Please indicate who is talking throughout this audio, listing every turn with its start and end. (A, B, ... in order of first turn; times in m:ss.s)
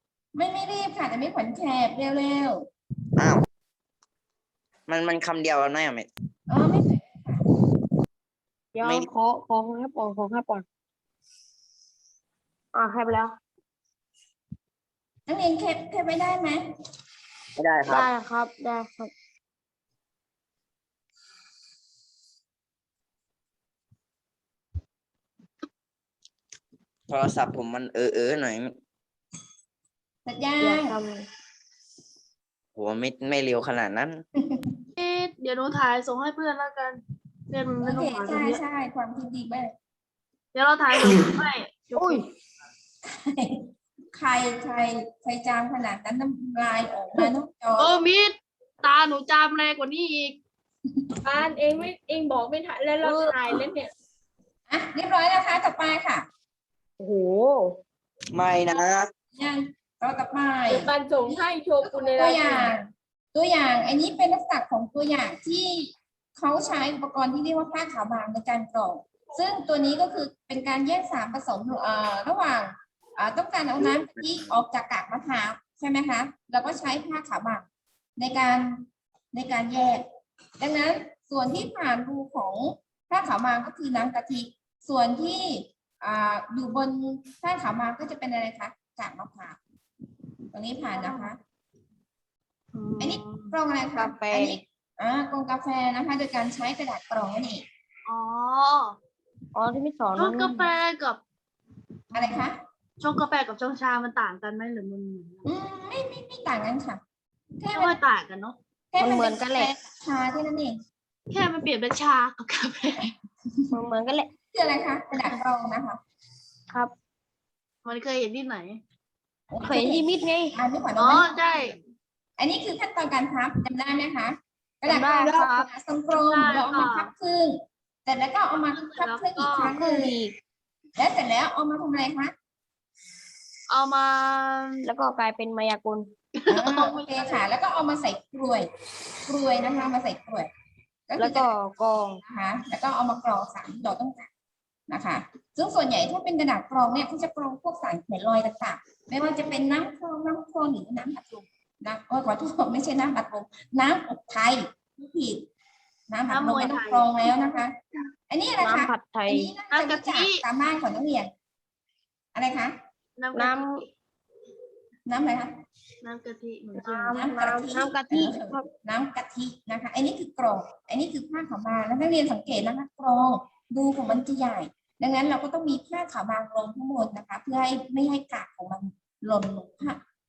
0:00.4-0:02.7 A
0:03.2-0:03.4 B
0:04.9-0:06.1 B
0:06.5-0:07.4 A
0:08.7-0:10.6 C
0:08.8-0:09.1 B
0:12.7-0:13.4 C
0:15.3-0:16.6 A
0:17.6-0:18.1 B
0:17.9-0:19.1 C
0:27.1-0:28.8 B
0:30.3-0:31.0 A
0:30.6-0:31.3 C
0:32.8-0:34.2 B
0:34.4-0:34.8 A
0:35.0-0:38.6 D
0:37.8-0:39.7 A
0:40.5-0:42.2 D
0:42.0-0:42.3 C
0:43.1-0:48.0 A
0:47.8-0:50.4 D
0:51.2-0:53.9 E
0:53.0-0:53.4 C
0:54.7-0:56.3 A
0:57.0-0:57.8 C
0:58.3-0:59.1 B
0:59.3-1:17.7 A
1:00.7-1:02.8 E
1:18.2-1:20.1 A
1:20.6-1:29.6 A
1:30.5-1:31.4 A
1:31.0-1:31.3 D
1:32.7-1:33.5 D
1:33.0-1:37.6 A
1:34.0-1:34.6 C
1:38.1-1:39.0 D
1:39.5-1:40.7 C
1:40.2-1:41.2 D
1:42.1-1:42.6 A
1:42.2-1:42.4 D
1:43.0-1:45.5 D
1:45.4-1:47.0 A
1:47.6-1:48.0 A
1:47.7-1:48.6 D
1:48.9-1:50.8 A
1:49.0-1:49.8 C
1:51.3-1:53.2 D
1:53.7-1:54.3 C
1:54.5-1:56.0 A
1:57.8-1:58.8 D
1:59.5-2:01.4 A
1:59.6-2:00.6 C
2:01.0-2:01.8 D
2:02.4-2:10.1 A
2:04.9-2:05.4 C
2:05.2-2:07.1 D
2:08.7-2:09.8 D
2:09.7-2:10.4 C
2:11.0-2:12.3 A
2:13.7-2:14.8 D
2:14.8-2:16.1 C
2:16.4-2:17.4 D
2:16.5-2:18.7 A
2:19.3-2:20.5 A
2:21.1-2:21.5 A
2:21.2-2:22.2 C
2:22.2-2:24.3 A
2:24.9-2:35.5 A
2:36.1-2:37.8 A
2:36.3-2:37.1 D
2:38.3-2:41.3 A
2:38.6-2:39.5 C
2:39.7-2:40.4 D
2:42.4-2:42.8 A
2:43.2-2:43.9 D
2:43.3-2:43.8 C
2:45.1-2:45.5 A
2:46.0-2:47.2 D
2:46.8-2:48.6 C
2:47.2-3:00.0 A